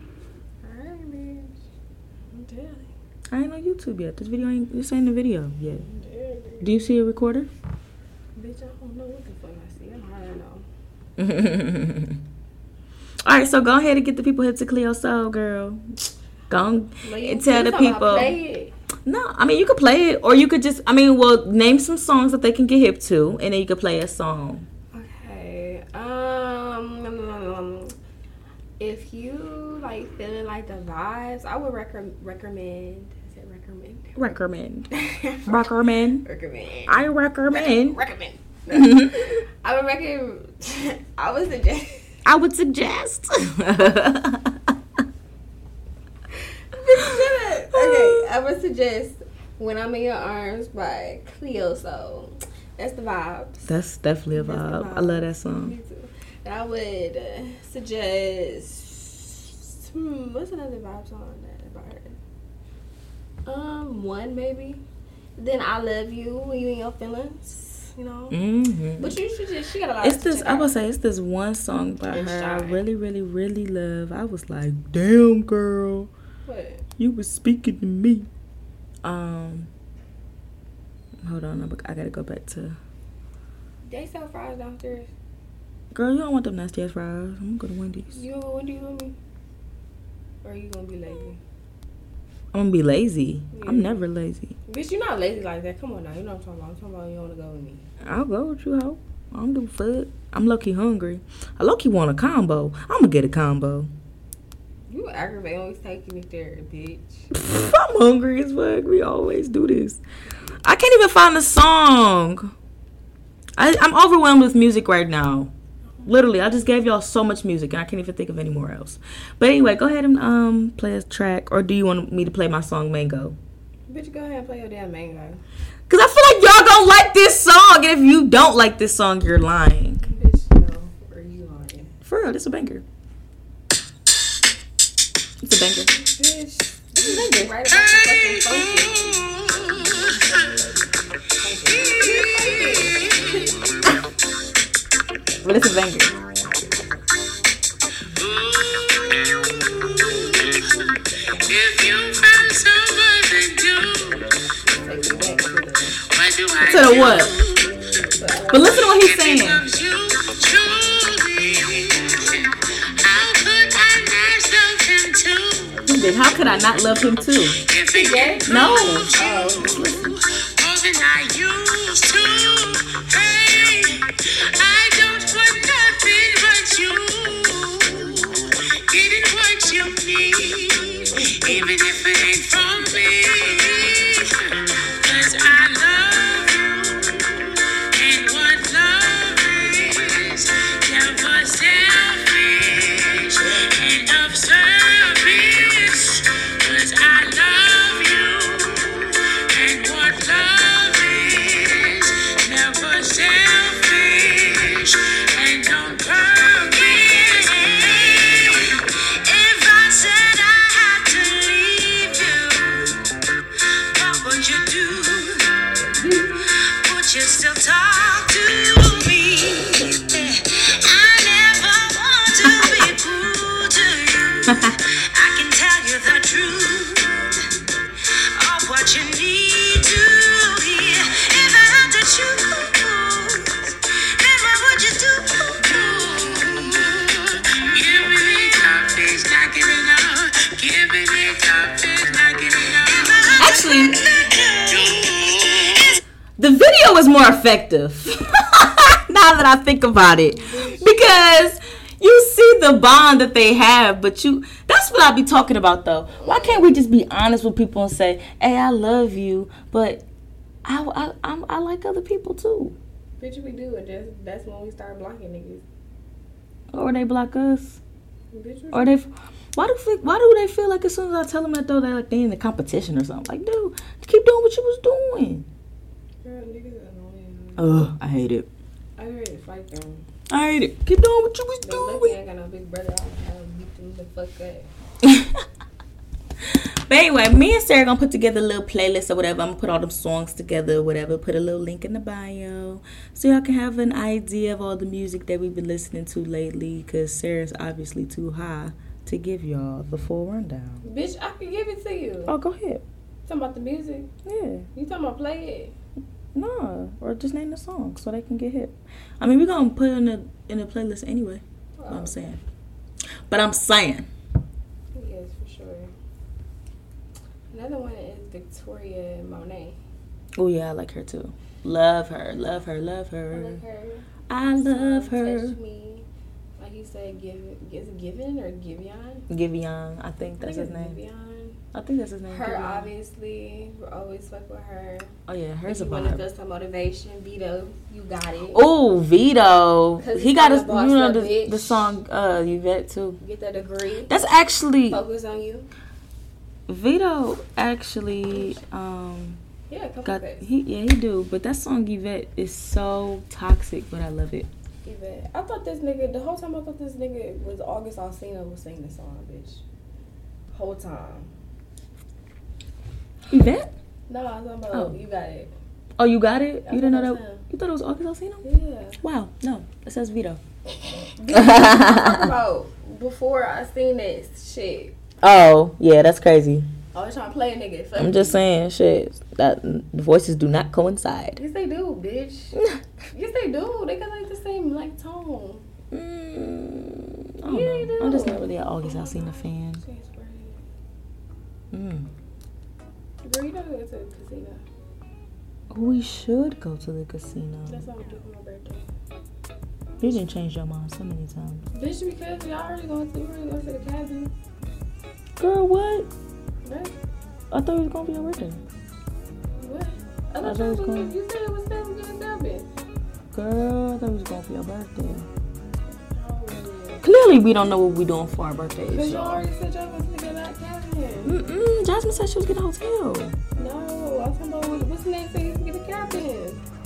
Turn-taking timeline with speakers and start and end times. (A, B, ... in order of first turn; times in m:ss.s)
0:00.6-0:01.6 A
0:02.3-0:02.9 A
0:03.3-0:05.8 B
0:05.8-0:06.8 A
0:06.6-0:07.5 B
0:08.4-0:10.6 A
0:11.2-0:12.2 B
0:13.2-0:15.8 B
0:16.5-0:18.4 B
0:17.0-0:18.7 A
0:19.1-0:24.7 B
0:24.9-0:28.0 A
0:28.8-0:34.3 A
0:34.2-0:34.9 B
0:34.9-0:42.0 A
0:35.5-0:36.2 B
0:36.9-0:38.0 B
0:38.7-0:39.4 B
0:42.2-0:44.7 B
0:46.7-0:53.7 A
0:46.9-0:48.3 B
0:53.7-0:55.8 B
0:54.3-1:02.2 A
1:03.5-1:04.8 A
1:05.4-1:08.4 A
1:08.3-1:09.2 B
1:09.0-1:10.8 A
1:10.0-1:16.1 B
1:12.1-1:12.8 A
1:16.5-1:16.8 A
1:17.0-1:18.3 B
1:19.0-1:19.7 B
1:21.2-1:22.8 B
1:23.9-1:25.1 A
1:25.9-1:28.2 B
1:28.1-1:29.2 A
1:30.4-1:31.4 A
1:32.5-1:34.6 B
1:33.5-1:34.0 A
1:34.7-1:37.8 A
1:38.0-1:43.9 B
1:44.9-1:47.3 A
1:47.3-1:50.0 B
1:50.6-1:52.5 B
1:53.6-1:55.5 B
1:56.1-2:03.4 B
2:03.9-2:05.4 A
2:05.9-2:10.0 B
2:10.0-2:11.9 A
2:12.0-2:12.8 B
2:15.4-2:15.9 B
2:15.8-2:23.6 A
2:17.0-2:17.5 B
2:17.7-2:20.4 C
2:21.7-2:23.6 C
2:25.4-2:26.2 B
2:28.1-2:34.4 C
2:34.7-2:36.0 A
2:36.0-2:38.2 C
2:36.6-2:37.4 B
2:38.0-2:38.9 A
2:38.5-2:39.6 B
2:38.8-2:45.9 C
2:45.9-2:47.6 B
2:47.5-3:33.0 C
2:47.9-2:49.8 A
2:48.5-2:50.2 B
3:33.9-3:35.7 C
3:35.9-3:36.5 A
3:36.7-3:47.6 C
3:42.4-3:42.9 B
3:48.3-4:06.0 C
4:03.4-4:05.0 B
4:06.4-4:20.0 B
4:10.3-4:10.9 A
4:16.1-4:16.7 A
4:20.6-4:22.8 B
4:23.2-4:25.6 A
4:26.7-4:27.8 B
4:28.3-4:28.9 A
4:28.7-4:35.5 B
4:36.2-4:37.8 A
4:37.6-4:38.5 B
4:39.0-4:40.0 A
4:40.3-4:42.2 B
4:41.6-4:44.7 A
4:45.0-4:45.4 B
4:46.4-5:00.8 B
5:00.8-5:02.4 A
5:02.3-5:02.8 B
5:03.3-5:04.1 A
5:04.2-5:04.7 B
5:04.7-5:05.7 A
5:06.3-5:12.4 B
5:11.8-5:12.3 A
5:13.3-5:14.1 B
5:15.0-5:15.9 A
5:17.5-5:19.8 A
5:20.4-5:23.6 B
5:23.3-5:26.1 A
5:24.3-5:25.6 B
5:26.6-5:29.3 A
5:29.3-5:31.0 B
5:30.4-5:31.6 A
5:31.7-5:32.9 B
5:32.3-5:35.1 A
5:35.3-5:36.2 B
5:35.7-5:38.6 A
5:38.5-5:43.2 B
5:40.0-5:42.0 A
5:43.2-5:44.2 A
5:44.1-5:45.0 B
5:44.9-5:45.7 A
5:46.7-5:49.4 B
5:48.3-5:48.6 A
5:49.7-5:50.4 A
5:50.0-5:54.5 B
5:54.8-5:59.6 A
6:00.5-6:01.3 A
6:03.3-6:03.7 B
6:04.1-6:05.5 A
6:06.0-6:08.4 B
6:06.7-6:07.4 A
6:08.4-6:09.0 A
6:09.0-6:10.4 B
6:11.0-6:15.0 A
6:11.3-6:12.3 B
6:15.2-6:16.7 B
6:16.9-6:18.5 A
6:18.0-6:21.4 B
6:21.4-6:22.6 A
6:23.1-6:25.6 A
6:25.9-6:29.8 B
6:27.4-6:30.6 A
6:31.7-6:32.1 B
6:33.2-6:34.6 A
6:35.7-6:37.9 B
6:37.7-6:38.9 A
6:40.0-6:41.7 B
6:41.7-6:44.3 A
6:45.4-6:46.1 B
6:46.6-6:46.9 A
6:47.5-6:48.6 B
6:49.6-6:52.7 A
6:50.4-6:51.2 B
6:53.3-6:55.3 B
6:56.1-6:57.0 A
6:57.0-6:59.4 B
6:58.9-7:01.6 A
7:01.2-7:03.4 B
7:03.6-7:06.6 A